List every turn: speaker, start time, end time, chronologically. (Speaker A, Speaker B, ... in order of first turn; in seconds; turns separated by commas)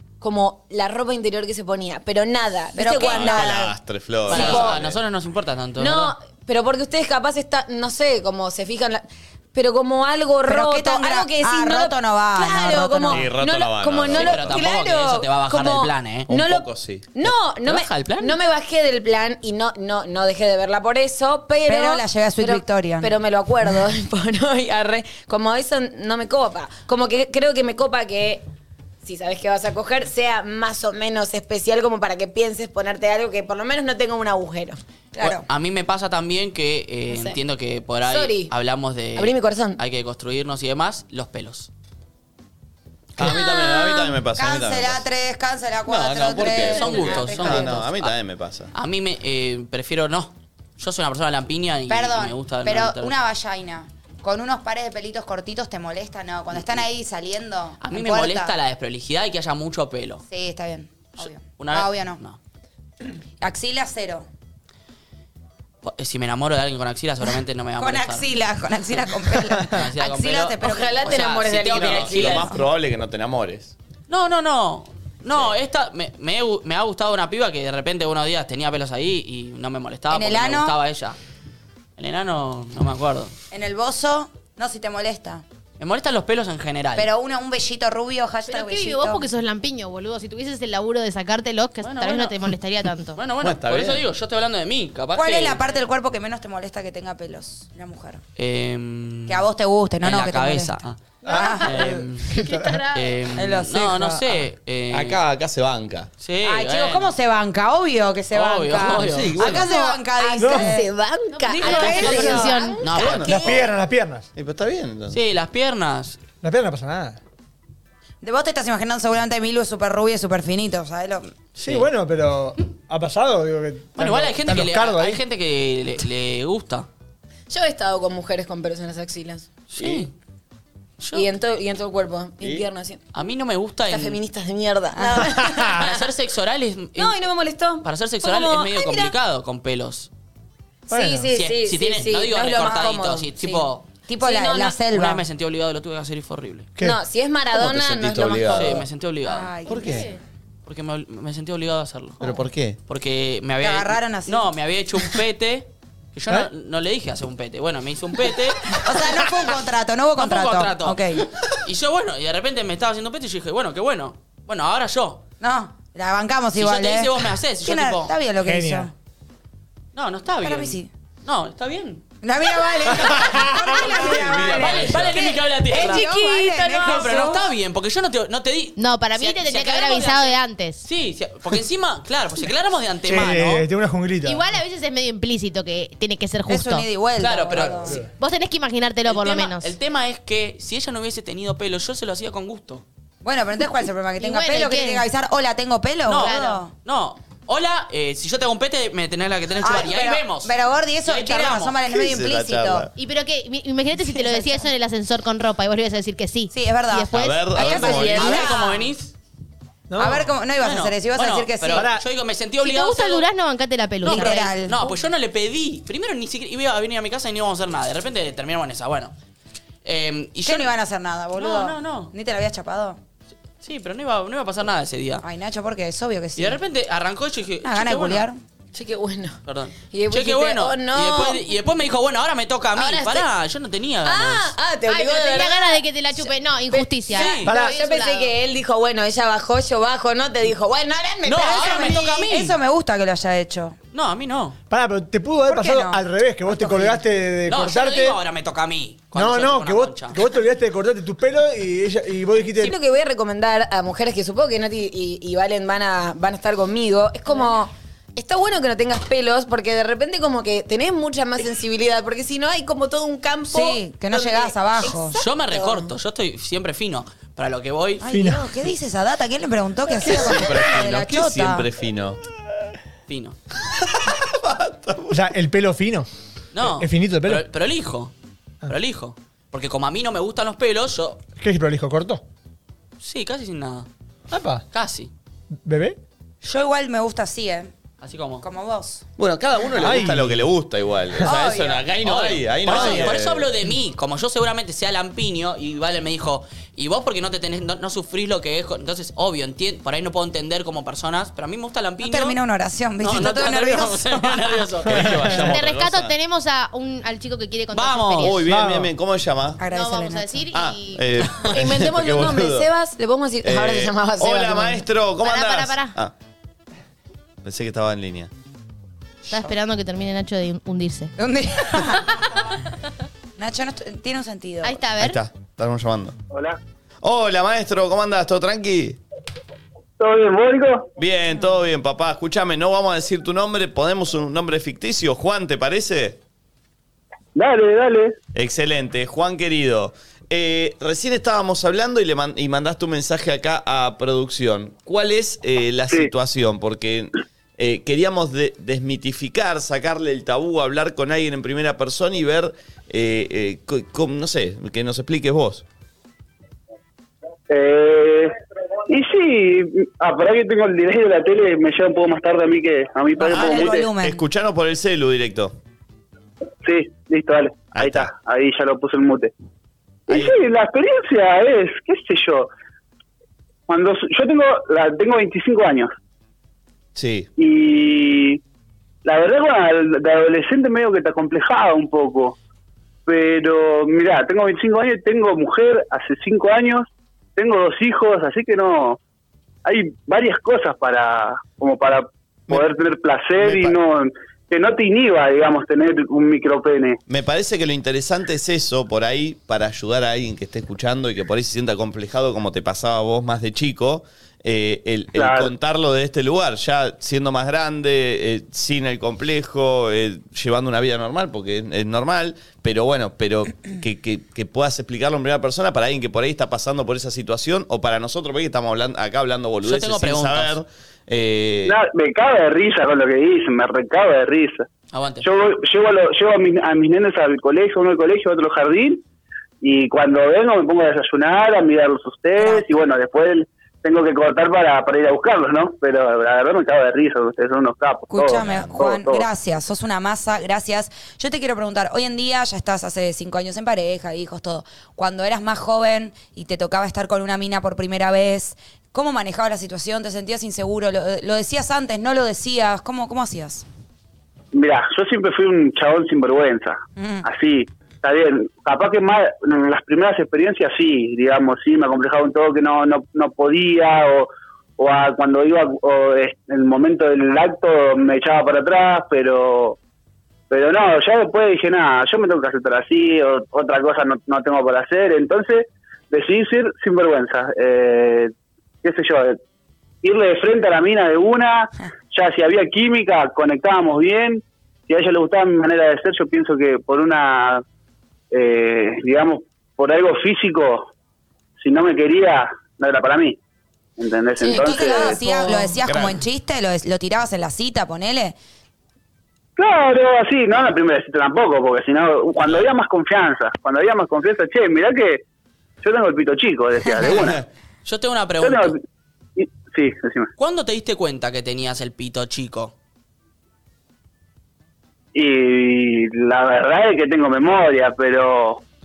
Speaker A: 0.2-3.6, Speaker B: 2.7-3.7, Speaker C: 3.0-5.0, Speaker D: 4.3-6.1, Speaker A: 4.3-4.7, Speaker B: 4.3-4.7, Speaker A: 5.8-28.4, Speaker B: 10.4-13.3, Speaker C: 13.1-14.6, Speaker D: 14.1-16.3, Speaker C: 16.3-17.1, Speaker D: 17.2-18.4, Speaker B: 21.7-23.1, Speaker A: 29.0-34.8, Speaker B: 35.1-35.4, Speaker D: 35.2-41.7, Speaker A: 37.1-37.4, Speaker A: 38.0-38.5, Speaker A: 39.1-39.8, Speaker C: 43.2-45.0, Speaker A: 43.2-44.2, Speaker B: 44.3-47.8, Speaker C: 45.9-48.7, Speaker D: 46.4-48.1, Speaker D: 48.7-53.1, Speaker B: 51.9-58.5, Speaker D: 57.8-60.2, Speaker B: 60.3-62.2, Speaker D: 61.2-62.4, Speaker B: 63.4-64.3, Speaker D: 65.8-68.3, Speaker B: 67.8-71.2, Speaker D: 69.7-72.5, Speaker A: 70.6-72.6, Speaker C: 71.7-73.7, Speaker D: 74.1-81.2, Speaker B: 80.1-80.8, Speaker D: 82.0-83.3, Speaker B: 83.5-85.4, Speaker D: 85.8-87.1, Speaker B: 87.0-89.2, Speaker E: 88.5-93.2, Speaker D: 91.8-92.4, Speaker D: 93.2-95.7, Speaker C: 93.4-94.0, Speaker B: 95.1-98.2, Speaker D: 98.4-99.5, Speaker B: 99.3-101.9, Speaker D: 100.0-101.0, Speaker F: 101.2-102.8, Speaker E: 101.3-103.2, Speaker D: 101.5-105.2, Speaker B: 103.3-104.4, Speaker C: 104.9-106.1, Speaker D: 106.2-107.1, Speaker B: 106.4-110.9, Speaker D: 108.3-109.6, Speaker C: 108.9-109.7, Speaker A: 109.5-113.5, Speaker F: 110.4-110.8, Speaker E: 111.3-112.9, Speaker D: 111.5-113.6, Speaker B: 111.6-112.6, Speaker C: 112.9-113.5, Speaker F: 113.2-114.3, Speaker C: 114.3-115.2, Speaker D: 115.1-116.2, Speaker F: 116.4-117.2, Speaker B: 118.2-121.3, Speaker D: 121.6-121.9, Speaker F: 121.6-125.2, Speaker D: 124.0-126.9, Speaker A: 127.5-129.5, Speaker D: 129.7-130.1, Speaker C: 129.8-130.1, Speaker D: 131.0-131.3, Speaker A: 131.1-133.0, Speaker C: 132.4-132.7, Speaker D: 133.1-134.2, Speaker A: 133.9-136.1, Speaker B: 134.9-135.4, Speaker D: 135.7-137.2, Speaker A: 136.9-139.1, Speaker D: 137.8-140.1, Speaker A: 140.9-143.7, Speaker F: 140.9-141.3, Speaker D: 141.3-143.9, Speaker B: 144.1-145.2, Speaker A: 144.2-144.8, Speaker D: 144.9-146.7, Speaker A: 146.8-148.8, Speaker C: 147.5-148.8, Speaker D: 148.5-149.6, Speaker B: 149.2-150.1, Speaker C: 149.7-150.1, Speaker E: 149.7-150.2, Speaker D: 150.6-152.3, Speaker C: 152.2-152.8, Speaker D: 152.9-158.8, Speaker B: 153.6-154.5, Speaker B: 158.7-161.2, Speaker D: 160.2-165.2, Speaker B: 165.4-168.9, Speaker D: 166.6-168.1, Speaker F: 168.4-168.9, Speaker D: 169.9-172.0, Speaker B: 170.4-170.9, Speaker B: 172.2-177.5, Speaker F: 173.1-173.7, Speaker D: 173.4-183.7, Speaker C: 173.9-175.3, Speaker E: 178.8-180.8, Speaker F: 183.1-184.6, Speaker E: 184.2-186.9, Speaker B: 186.5-188.0, Speaker D: 187.2-188.0, Speaker F: 187.8-188.1, Speaker E: 188.2-189.7, Speaker D: 189.1-192.8, Speaker B: 193.2-196.7, Speaker E: 194.2-195.0, Speaker D: 196.1-201.8, Speaker E: 196.2-196.6, Speaker B: 199.6-202.9, Speaker C: 201.9-202.9, Speaker E: 203.0-208.1, Speaker B: 204.0-204.7, Speaker B: 206.5-208.9, Speaker C: 207.1-208.5, Speaker D: 207.6-209.1, Speaker F: 209.9-210.3, Speaker B: 210.0-211.9, Speaker D: 210.6-213.2, Speaker F: 211.7-212.0, Speaker E: 212.6-214.5, Speaker B: 214.0-214.8, Speaker D: 214.0-219.1, Speaker D: 219.8-220.7, Speaker B: 220.4-223.0, Speaker D: 221.4-222.1, Speaker D: 223.6-225.2, Speaker B: 225.2-226.6, Speaker D: 226.3-228.3, Speaker B: 227.6-228.4, Speaker A: 228.7-231.5, Speaker D: 229.4-234.6, Speaker A: 232.7-233.3, Speaker A: 234.0-242.2, Speaker E: 234.9-238.3, Speaker D: 237.1-237.5, Speaker F: 237.4-237.7, Speaker D: 241.2-242.6, Speaker B: 241.4-243.8, Speaker D: 243.9-244.6, Speaker F: 244.7-248.2, Speaker B: 245.5-247.0, Speaker D: 247.5-250.2, Speaker F: 249.1-252.8, Speaker A: 252.6-265.9, Speaker B: 263.5-265.2, Speaker D: 265.1-268.0, Speaker B: 268.0-271.7, Speaker F: 268.1-268.5, Speaker C: 270.0-272.2, Speaker D: 273.1-273.4, Speaker C: 273.6-275.2, Speaker F: 275.1-276.1, Speaker D: 276.5-278.1, Speaker F: 276.6-277.4, Speaker D: 278.7-281.2, Speaker F: 281.4-282.2, Speaker D: 283.0-283.9, Speaker F: 284.3-284.6, Speaker D: 284.7-285.1, Speaker F: 285.6-286.0, Speaker B: 286.4-287.7, Speaker D: 288.0-288.4, Speaker B: 288.4-289.0, Speaker C: 289.2-293.5, Speaker F: 289.7-290.4, Speaker B: 291.2-291.9, Speaker D: 292.0-302.4, Speaker B: 302.0-304.6, Speaker D: 303.0-305.4, Speaker C: 304.9-306.1, Speaker E: 305.4-308.5, Speaker D: 307.7-308.4, Speaker C: 308.2-309.6, Speaker F: 308.4-308.9, Speaker B: 309.6-310.4, Speaker E: 309.7-311.3, Speaker C: 310.5-312.7, Speaker A: 311.5-314.9, Speaker C: 313.4-316.1, Speaker E: 315.2-315.9, Speaker C: 317.4-318.3, Speaker E: 319.3-321.1, Speaker B: 321.2-322.2, Speaker B: 323.4-324.8, Speaker E: 324.6-325.2, Speaker C: 325.0-326.1, Speaker G: 326.3-326.6, Speaker C: 327.0-329.0, Speaker G: 330.0-330.9, Speaker C: 331.0-336.2, Speaker G: 337.3-338.2, Speaker C: 338.3-355.6, Speaker G: 357.5-358.3, Speaker G: 358.9-363.9, Speaker B: 363.2-364.2, Speaker C: 363.2-365.5, Speaker G: 366.6-369.3, Speaker C: 367.7-368.1, Speaker G: 370.1-372.5, Speaker C: 370.1-370.3, Speaker G: 373.7-375.9, Speaker C: 376.9-377.3, Speaker G: 377.4-378.4, Speaker G: 379.0-382.4, Speaker G: 383.1-389.0, Speaker G: 389.6-397.0, Speaker C: 393.4-393.8, Speaker C: 397.1-421.8, Speaker G: 405.1-405.5, Speaker D: 419.6-420.6, Speaker G: 421.6-424.7, Speaker D: 424.9-425.2, Speaker G: 425.2-429.0, Speaker G: 429.6-439.2, Speaker B: 432.4-432.8, Speaker B: 438.1-453.6, Speaker C: 438.3-438.8, Speaker G: 454.5-469.8, Speaker B: 457.0-457.2, Speaker G: 470.5-478.3, Speaker G: 478.8-479.4, Speaker G: 480.0-487.6, Speaker G: 488.3-490.9, Speaker G: 491.6-493.4, Speaker G: 494.0-495.3, Speaker A: 494.4-495.8, Speaker B: 494.4-498.4, Speaker C: 495.8-496.2, Speaker G: 499.6-505.2, Speaker C: 502.4-502.7, Speaker G: 505.8-507.4, Speaker C: 507.0-507.4, Speaker D: 507.8-508.7, Speaker G: 508.4-508.8, Speaker G: 509.4-510.3, Speaker D: 510.4-512.7, Speaker G: 515.1-518.6